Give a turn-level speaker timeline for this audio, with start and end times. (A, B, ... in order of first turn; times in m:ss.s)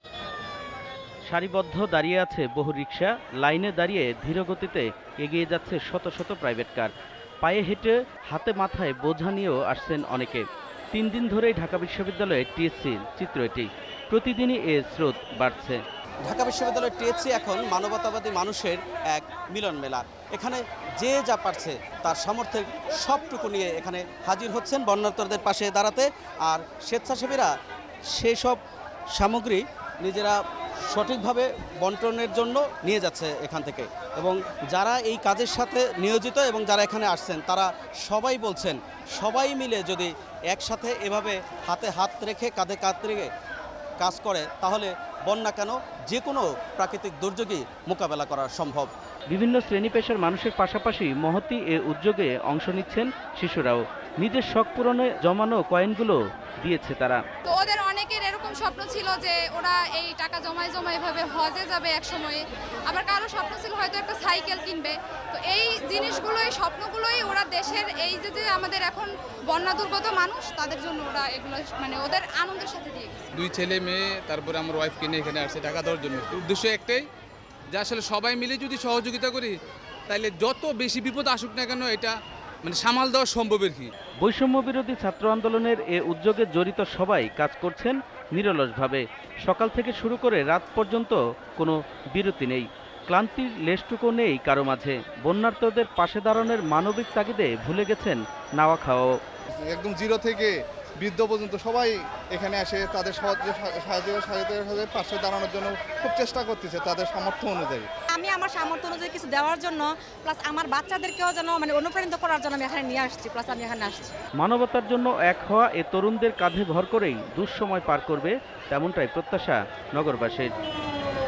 0:01.3-0:15.8 A
0:16.2-0:27.5 B
0:28.1-0:28.6 B
0:29.1-0:43.3 B
0:44.0-0:48.9 B
0:49.3-0:57.2 A
0:57.4-1:13.3 C
1:13.3-1:17.1 D
1:17.7-1:19.6 D
1:20.1-1:23.9 D
1:24.2-1:39.2 A
1:39.6-1:47.9 E
1:48.1-1:54.1 F
1:54.4-2:00.5 A